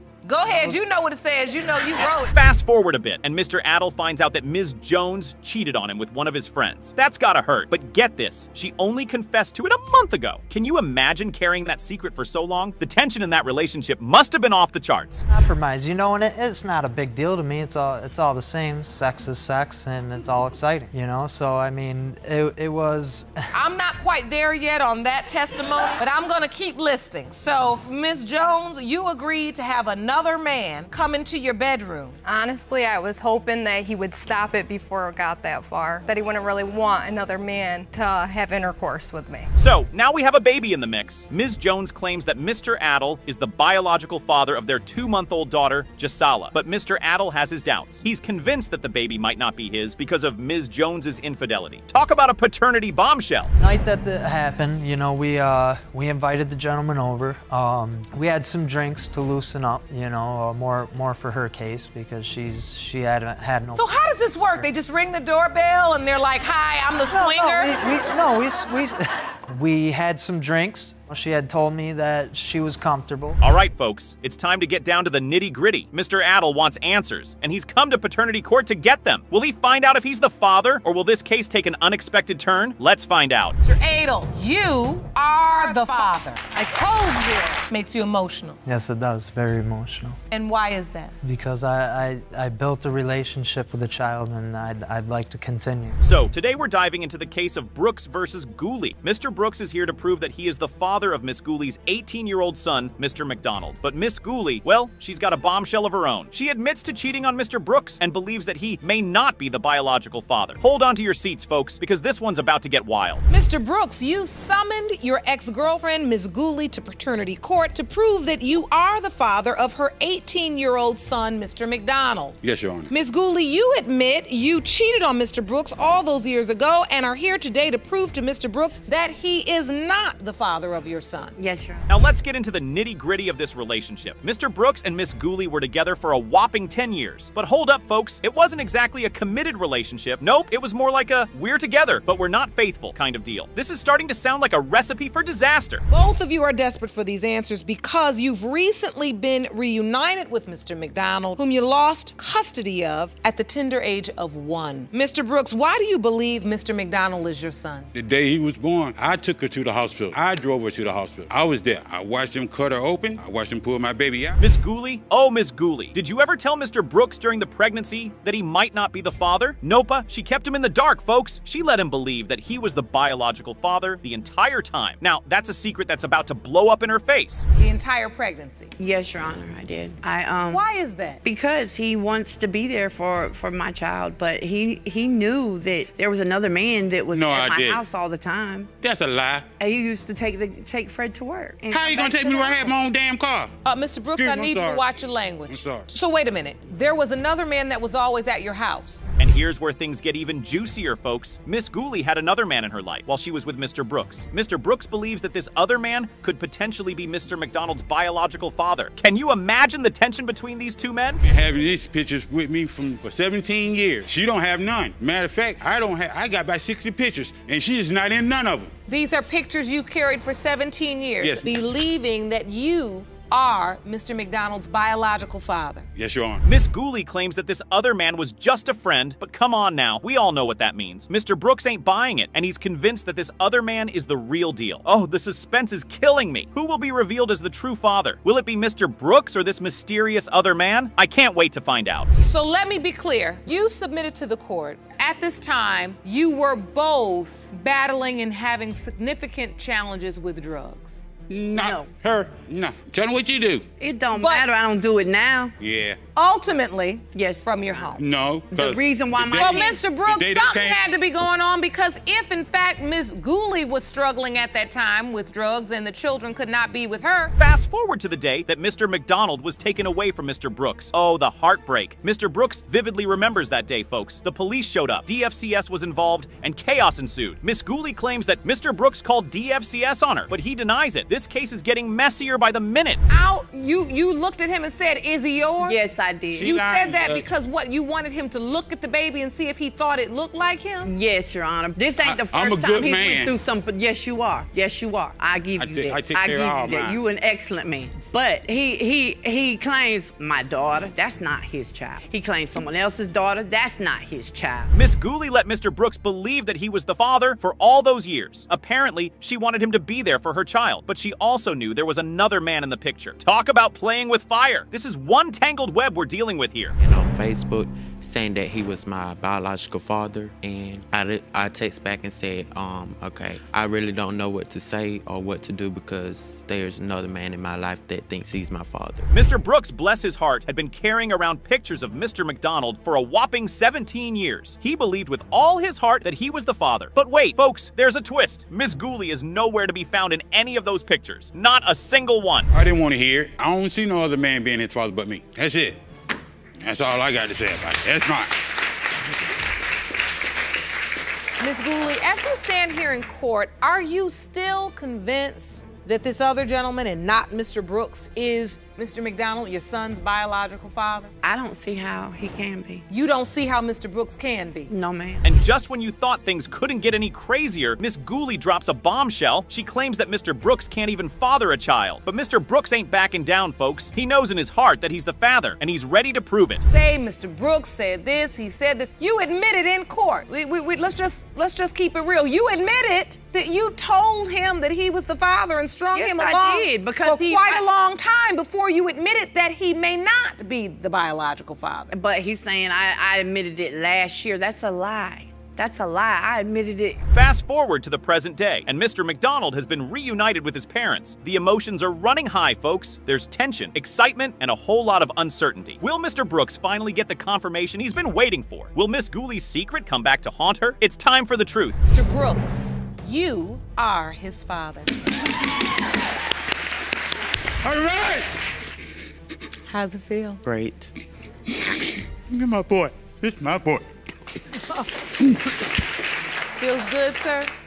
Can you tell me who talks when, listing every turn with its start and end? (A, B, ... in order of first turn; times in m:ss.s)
0:00.2-0:02.3 A
0:00.5-0:00.8 B
0:02.3-0:15.2 C
0:15.3-0:23.4 B
0:23.5-0:32.2 A
0:32.2-0:39.5 D
0:39.6-0:53.5 C
0:53.6-1:04.9 B
1:03.8-1:07.8 A
1:07.1-1:13.4 B
1:13.4-1:23.6 C
1:23.6-1:28.6 A
1:28.6-1:30.2 B
1:30.3-1:31.1 A
1:31.2-1:36.0 B
1:36.0-1:53.2 C
1:53.3-2:02.4 A
2:02.4-2:02.9 E
2:02.9-2:11.3 A
2:11.4-2:11.8 F
2:11.9-2:25.8 C
2:25.9-2:37.9 A
2:37.9-2:44.4 E
2:44.4-2:57.5 C
2:57.6-2:58.7 A
2:58.8-3:00.6 F
3:00.5-3:01.2 A
3:01.2-3:08.7 F
3:07.1-3:07.8 E
3:08.8-3:09.5 E
3:09.6-3:12.8 F
3:11.7-3:13.5 E
3:13.6-3:19.1 A
3:14.1-3:14.9 E
3:15.5-3:15.8 E
3:19.2-3:31.2 C
3:31.2-3:38.7 E
3:38.9-3:45.9 A
3:41.2-3:41.5 E
3:46.0-3:46.4 E
3:46.4-4:02.1 C
4:02.1-4:11.0 A
4:11.3-4:13.6 E
4:11.6-4:11.9 F
4:13.8-4:15.5 F
4:14.2-4:14.5 A
4:15.6-4:16.0 E
4:16.1-4:18.0 A
4:17.1-4:17.6 F
4:17.7-4:20.8 E
4:18.5-4:19.9 F
4:19.4-4:27.3 A
4:27.4-4:43.0 C
4:43.1-4:45.8 A
4:45.6-4:46.6 F
4:46.3-4:47.2 E
4:46.4-4:50.9 A
4:50.8-5:04.7 F
4:52.0-4:53.3 E
4:55.6-4:57.0 E
5:04.7-5:16.8 C
5:16.8-5:29.1 G
5:29.1-5:42.5 C
5:42.5-5:45.8 E
5:46.6-5:48.4 E
5:51.4-6:01.1 A
6:01.2-6:02.6 F
6:02.9-6:04.7 A
6:04.7-6:05.2 F
6:05.2-6:16.6 C
6:16.6-6:31.9 A
6:26.0-6:27.6 F
6:31.9-6:37.0 F
6:37.1-6:51.8 C
6:51.8-6:55.0 A
6:57.6-6:58.3 E
6:59.7-7:00.4 A
7:00.4-7:00.9 G
7:02.3-7:03.9 E
7:06.6-7:07.5 A